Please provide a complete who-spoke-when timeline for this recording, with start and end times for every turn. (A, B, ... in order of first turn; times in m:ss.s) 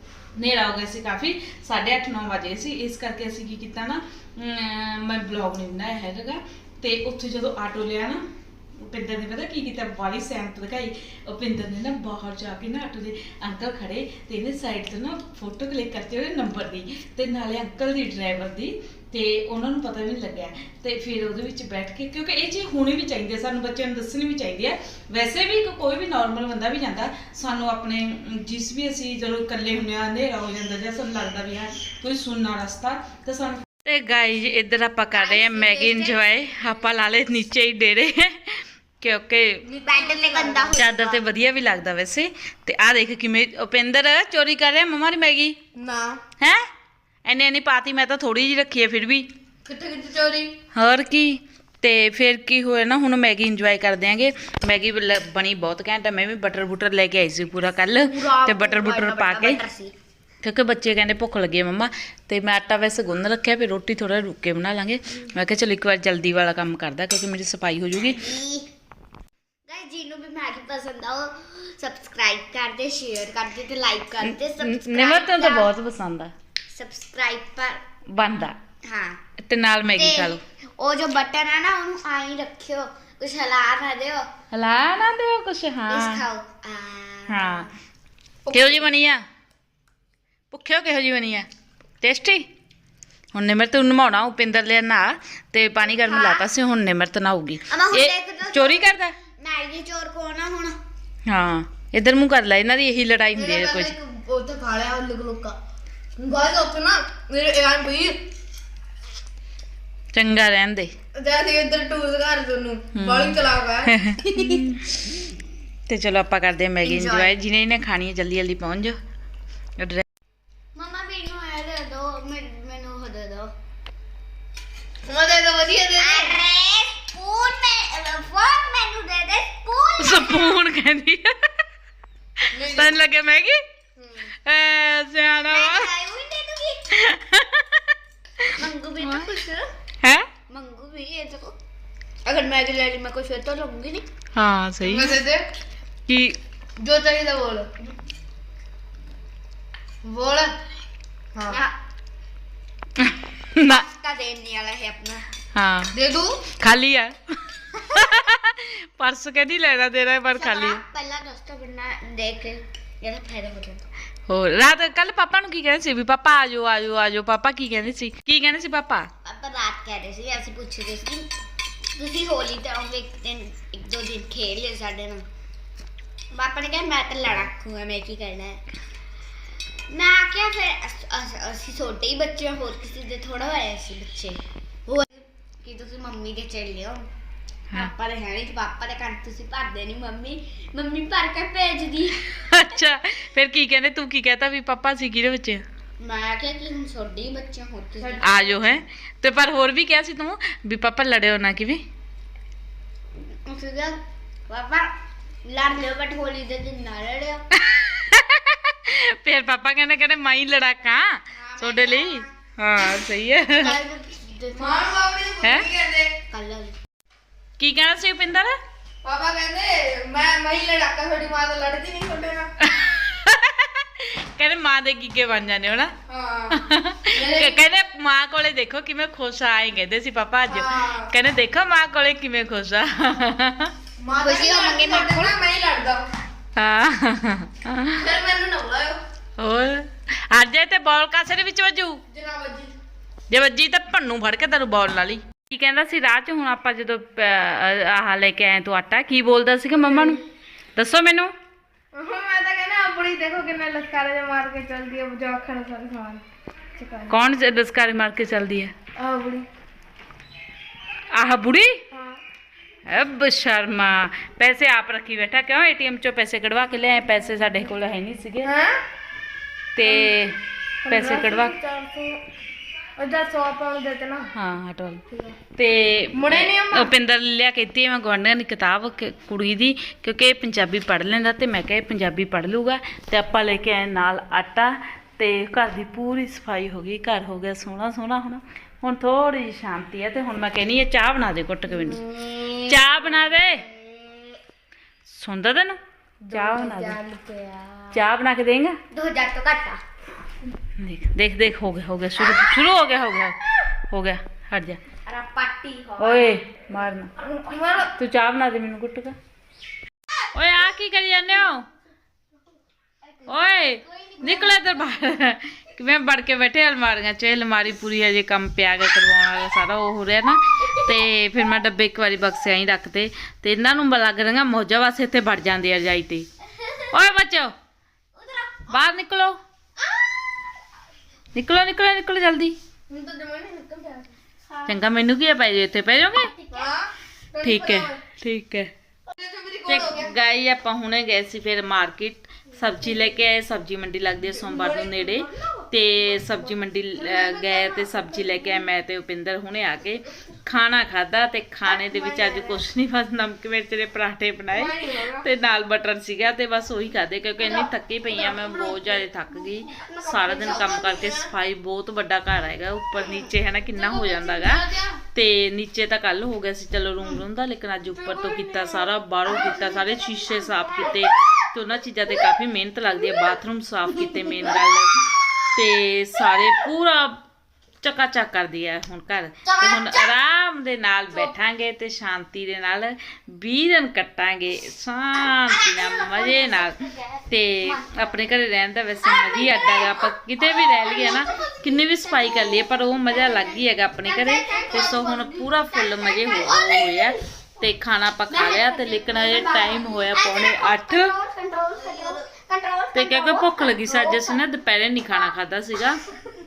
0:00.4-0:08.2 A
0:08.8-0:39.6 A
0:35.3-0:36.2 B
0:39.7-0:40.9 C
0:39.8-0:41.2 B
0:40.8-0:45.6 A
0:45.8-0:46.2 C
0:47.2-0:49.3 A
0:49.7-0:50.6 C
0:50.7-0:59.6 A
0:58.0-0:59.9 B
1:00.4-1:08.2 A
1:08.0-1:08.7 B
1:09.7-1:15.7 B
1:14.2-1:16.3 A
1:16.7-1:17.8 B
1:18.1-1:18.6 A
1:18.8-1:19.2 B
1:19.4-1:20.4 A
1:20.0-1:24.3 B
1:24.5-1:26.2 A
1:25.9-1:27.7 B
1:27.3-1:27.7 A
1:28.5-1:29.2 A
1:30.5-1:31.5 A
1:32.0-1:32.5 A
1:33.3-1:39.2 A
1:35.8-1:36.5 B
1:37.7-1:40.8 B
1:41.3-1:43.9 A
1:43.4-1:45.6 C
1:46.2-1:48.2 C
1:50.1-1:50.9 A
1:51.2-1:54.6 C
1:53.0-1:55.1 A
1:55.9-1:59.0 A
1:56.8-1:57.3 B
1:59.8-2:00.0 A
2:00.8-2:03.5 B
2:05.1-2:06.4 C
2:06.0-2:10.5 B
2:10.0-2:11.4 A
2:12.5-2:13.6 A
2:12.5-2:13.0 C
2:14.0-2:14.2 C
2:14.4-2:15.9 A
2:15.5-2:16.9 B
2:17.0-2:17.8 A
2:18.6-2:19.7 B
2:20.0-2:20.3 A
2:20.5-2:21.6 B
2:22.2-2:24.1 B
2:24.3-2:25.2 A
2:24.8-2:25.5 C
2:26.1-2:26.4 A
2:26.8-2:27.8 C
2:30.0-2:30.5 C
2:31.5-2:31.8 B
2:33.0-2:33.8 A
2:33.7-2:35.2 B
2:35.5-2:36.0 A
2:35.9-2:36.4 C
2:36.6-2:37.2 A
2:37.7-2:40.8 A
2:40.3-2:43.8 B
2:44.3-2:49.1 A
2:49.2-2:51.3 B
2:51.9-2:55.2 B
2:56.3-2:58.6 B
2:59.9-3:07.1 B
3:07.7-3:12.2 B
3:12.2-3:15.6 A
3:16.0-3:18.8 B
3:18.2-3:21.8 A
3:23.4-3:24.9 B
3:25.4-3:27.4 B
3:27.6-3:33.8 A
3:31.4-3:32.3 B
3:33.6-3:34.9 B
3:34.6-3:36.1 C
3:35.4-3:35.7 A
3:36.3-3:36.7 B
3:37.6-3:38.6 A
3:39.0-3:42.5 C
3:42.6-3:45.9 A
3:46.1-3:47.6 C
3:46.5-3:53.7 A
3:50.5-3:51.1 C
3:54.0-3:56.0 C
3:54.2-3:55.4 B
3:56.6-3:58.1 A
3:58.0-3:59.0 C
3:59.4-4:02.0 A
4:02.1-4:02.7 C
4:03.3-4:10.2 A
4:09.9-4:10.2 C
4:10.8-4:11.3 A
4:11.9-4:16.2 C
4:16.8-4:17.3 C
4:17.1-4:18.7 A
4:19.0-4:19.5 C
4:21.1-4:21.8 A
4:21.9-4:22.2 C
4:22.9-4:28.5 A
4:28.4-4:28.8 C
4:29.8-4:30.4 A
4:29.8-4:30.1 C
4:30.8-4:32.2 C
4:30.9-4:31.6 A
4:33.0-4:34.3 C
4:34.3-4:35.0 A
4:35.1-4:35.4 C
4:35.6-4:52.1 A
4:36.1-4:36.9 C
4:51.8-4:52.8 C
4:52.6-4:53.7 A
4:53.4-4:54.4 B
4:55.1-4:55.8 A
4:56.2-4:57.8 C
4:56.3-4:57.0 A
4:57.9-4:58.8 A
4:58.9-4:59.8 B
5:00.8-5:03.4 A
5:03.9-5:04.8 A
5:05.1-5:06.4 B
5:06.0-5:07.1 A
5:07.4-5:07.9 C
5:07.6-5:07.9 B
5:07.9-5:09.2 A
5:10.3-5:11.7 A
5:13.2-5:14.6 B
5:13.3-5:26.3 A
5:26.9-5:27.5 A
5:28.2-5:28.6 B
5:28.7-5:29.4 A
5:31.3-5:32.6 A
5:32.9-5:34.1 C
5:34.6-5:36.3 A
5:36.3-5:36.7 B
5:36.5-5:38.0 C
5:37.4-5:38.7 A
5:39.2-5:40.1 C
5:39.7-6:17.2 A
5:44.4-5:48.6 C
5:51.7-5:52.6 C
5:54.5-5:55.3 C
5:57.4-5:59.0 C
5:59.8-6:01.3 C
6:03.8-6:05.0 C
6:08.1-6:08.8 C
6:09.4-6:09.8 C
6:17.8-6:26.8 A
6:26.2-6:26.7 B
6:27.3-6:41.1 A
6:27.8-6:28.1 B
6:29.3-6:29.9 B
6:30.7-6:37.1 B
6:38.3-6:44.4 B
6:41.9-6:42.2 C
6:42.9-6:46.0 A